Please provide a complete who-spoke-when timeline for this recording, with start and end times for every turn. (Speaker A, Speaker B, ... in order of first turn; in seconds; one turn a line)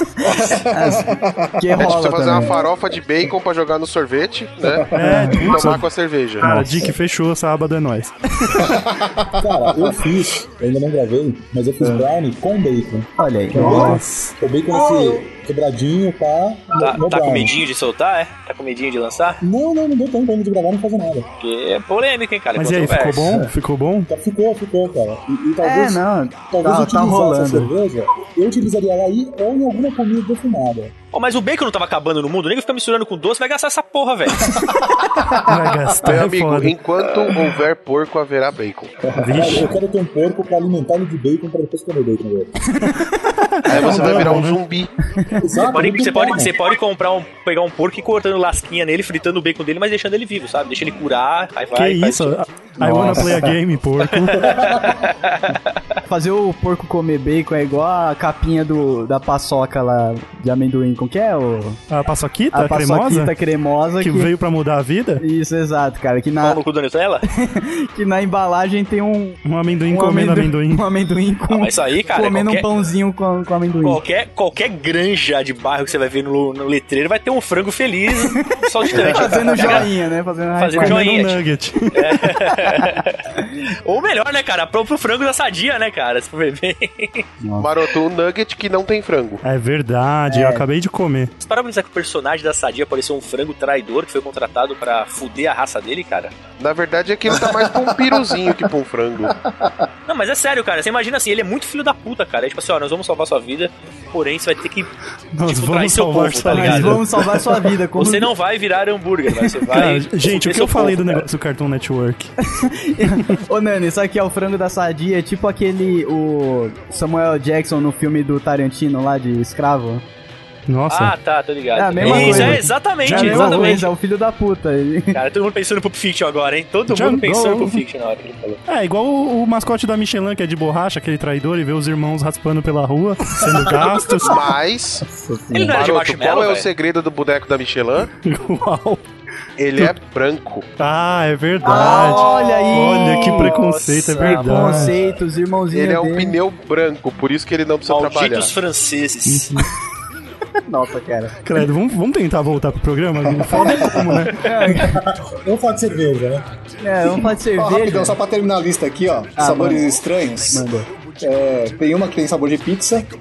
Speaker A: 0.2-2.6
Speaker B: 0.7-2.6
Speaker C: 1.7-6.8
Speaker A: 4.6-5.2
Speaker D: 4.9-5.8
Speaker B: 5.0-5.4
Speaker D: 6.4-8.8
Speaker A: 8.6-10.1
Speaker E: 9.4-17.6
Speaker A: 11.8-12.1
Speaker B: 13.2-14.0
Speaker D: 13.6-14.3
Speaker F: 16.8-19.4
Speaker E: 19.4-21.3
Speaker F: 21.4-23.4
Speaker D: 22.5-24.1
Speaker E: 24.1-30.9
Speaker B: 25.6-27.7
Speaker F: 31.1-34.5
Speaker D: 35.4-36.7
Speaker C: 36.0-38.9
Speaker A: 39.1-39.6
Speaker D: 39.2-39.7
Speaker E: 39.3-42.6
Speaker B: 42.8-43.1
Speaker D: 43.0-44.6
Speaker C: 43.6-44.9
Speaker A: 43.7-44.3
Speaker B: 45.1-45.6
Speaker E: 45.4-46.5
Speaker F: 45.6-52.4
Speaker D: 51.7-54.7
Speaker B: 52.8-53.4
Speaker F: 54.0-56.0
Speaker B: 56.1-61.8
Speaker D: 61.9-63.3
Speaker B: 62.5-64.3
Speaker D: 64.0-65.2
Speaker B: 65.2-66.6
Speaker F: 66.4-67.2
Speaker B: 67.3-74.0
Speaker D: 69.4-70.8
Speaker F: 71.5-72.7
Speaker F: 73.8-79.9
Speaker B: 78.1-81.0
Speaker F: 80.6-81.4
Speaker D: 80.8-82.3
Speaker F: 81.9-83.2
Speaker F: 83.8-87.3
Speaker B: 87.4-87.7
Speaker C: 87.6-89.4
Speaker D: 89.4-91.3
Speaker B: 90.3-90.7
Speaker F: 91.4-96.3
Speaker C: 96.6-99.3
Speaker A: 97.3-98.5
Speaker A: 99.2-99.8
Speaker F: 100.1-107.3
Speaker D: 105.3-107.1
Speaker B: 106.5-108.3
Speaker F: 107.9-111.2
Speaker D: 109.7-112.3
Speaker B: 112.4-120.0
Speaker D: 113.1-113.3
Speaker D: 120.7-121.1
Speaker F: 120.9-123.9
Speaker B: 121.7-125.2
Speaker D: 122.0-123.8
Speaker F: 125.1-128.6
Speaker D: 126.9-127.8
Speaker D: 128.7-134.4
Speaker C: 134.1-135.0
Speaker B: 135.0-135.8
Speaker F: 135.5-136.7
Speaker C: 135.7-138.1
Speaker D: 138.2-139.0
Speaker C: 139.6-140.7
Speaker D: 140.8-144.9
Speaker B: 141.6-143.6
Speaker F: 141.7-145.0
Speaker B: 144.2-146.4
Speaker C: 145.7-148.5
Speaker F: 147.9-149.6
Speaker D: 149.3-149.7
Speaker B: 150.7-151.4
Speaker D: 151.4-154.7
Speaker A: 153.3-154.0
Speaker B: 154.3-155.0
Speaker E: 154.7-156.4
Speaker B: 156.8-158.2
Speaker A: 157.5-160.7
Speaker B: 159.4-159.9
Speaker B: 160.5-160.9
Speaker A: 161.2-163.1